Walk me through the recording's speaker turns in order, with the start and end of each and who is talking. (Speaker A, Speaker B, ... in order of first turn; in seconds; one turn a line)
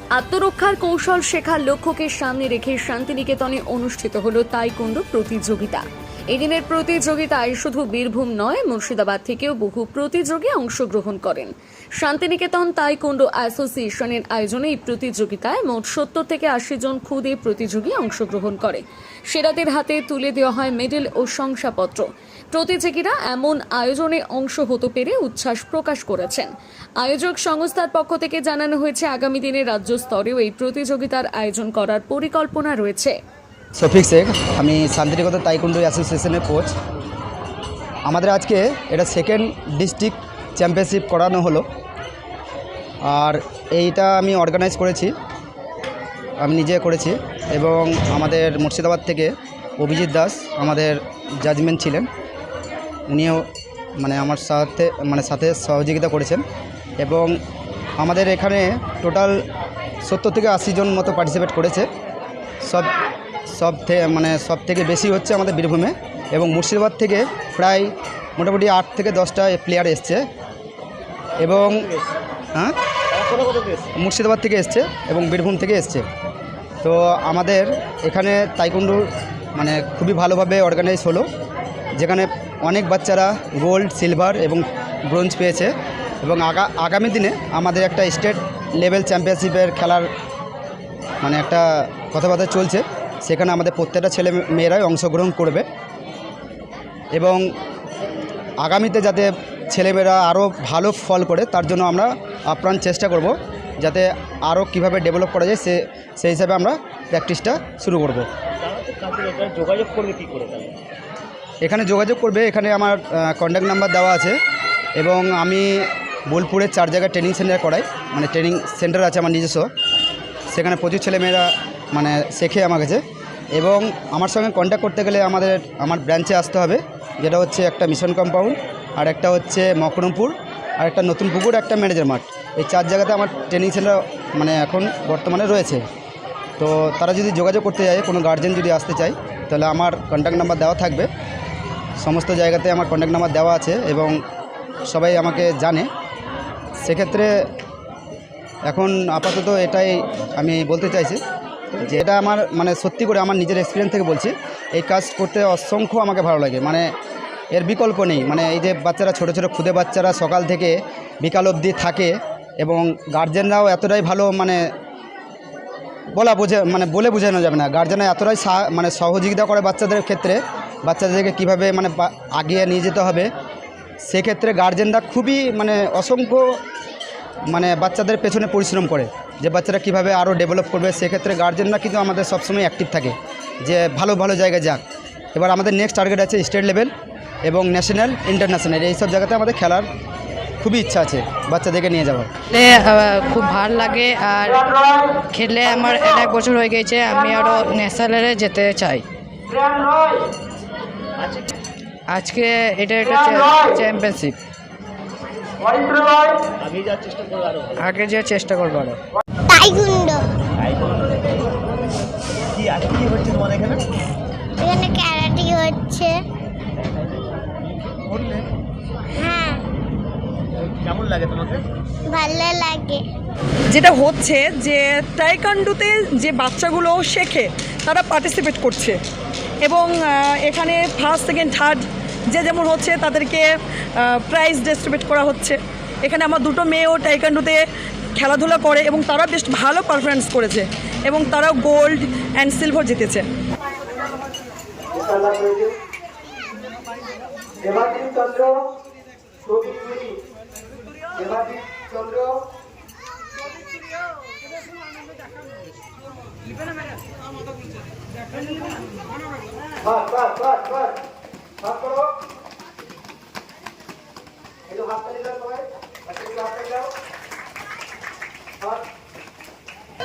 Speaker A: 0.1-33.2
Speaker B: 33.8-36.7
Speaker B: 38.1-41.6
Speaker B: 43.0-45.1
Speaker B: 46.4-52.1
Speaker B: 53.1-53.4
Speaker B: 54.0-56.4
Speaker B: 57.0-57.4
Speaker B: 58.0-59.4
Speaker B: 60.0-61.9
Speaker B: 62.6-62.9
Speaker B: 63.5-70.2
Speaker B: 71.4-71.8
Speaker C: 71.7-72.0
Speaker C: 73.1-73.9
Speaker B: 74.0-76.0
Speaker B: 76.8-79.0
Speaker B: 79.5-81.3
Speaker B: 82.0-85.7
Speaker B: 86.2-90.1
Speaker B: 91.2-95.7
Speaker B: 97.1-97.4
Speaker B: 98.6-108.3
Speaker C: 108.6-110.7
Speaker B: 111.6-114.4
Speaker B: 115.0-119.7
Speaker B: 120.5-123.0
Speaker B: 123.5-135.8
Speaker B: 136.6-141.1
Speaker B: 142.0-144.2
Speaker B: 144.9-145.9
Speaker B: 146.8-147.3
Speaker B: 148.7-151.2
Speaker B: 151.8-156.9
Speaker B: 157.5-164.6
Speaker B: 166.1-173.3
Speaker B: 174.1-176.5
Speaker B: 177.5-184.8
Speaker B: 185.3-186.9
Speaker B: 187.4-189.9
Speaker B: 190.6-192.3
Speaker D: 192.5-199.0
Speaker C: 201.2-201.5
Speaker D: 202.1-204.3
Speaker C: 206.6-207.9
Speaker D: 207.8-209.0
Speaker E: 209.5-210.3
Speaker C: 210.6-211.3
Speaker C: 212.5-213.8
Speaker E: 214.6-216.2
Speaker C: 218.1-218.4
Speaker E: 219.1-219.6
Speaker C: 220.8-221.6
Speaker E: 222.1-223.0
Speaker F: 223.7-229.0
Speaker F: 229.6-237.6
Speaker F: 238.2-243.2
Speaker B: 244.9-245.7
Speaker B: 247.7-248.5
Speaker B: 249.5-250.1
Speaker B: 251.2-252.3
Speaker B: 259.9-260.9
Speaker B: 261.6-262.1
Speaker B: 264.7-266.9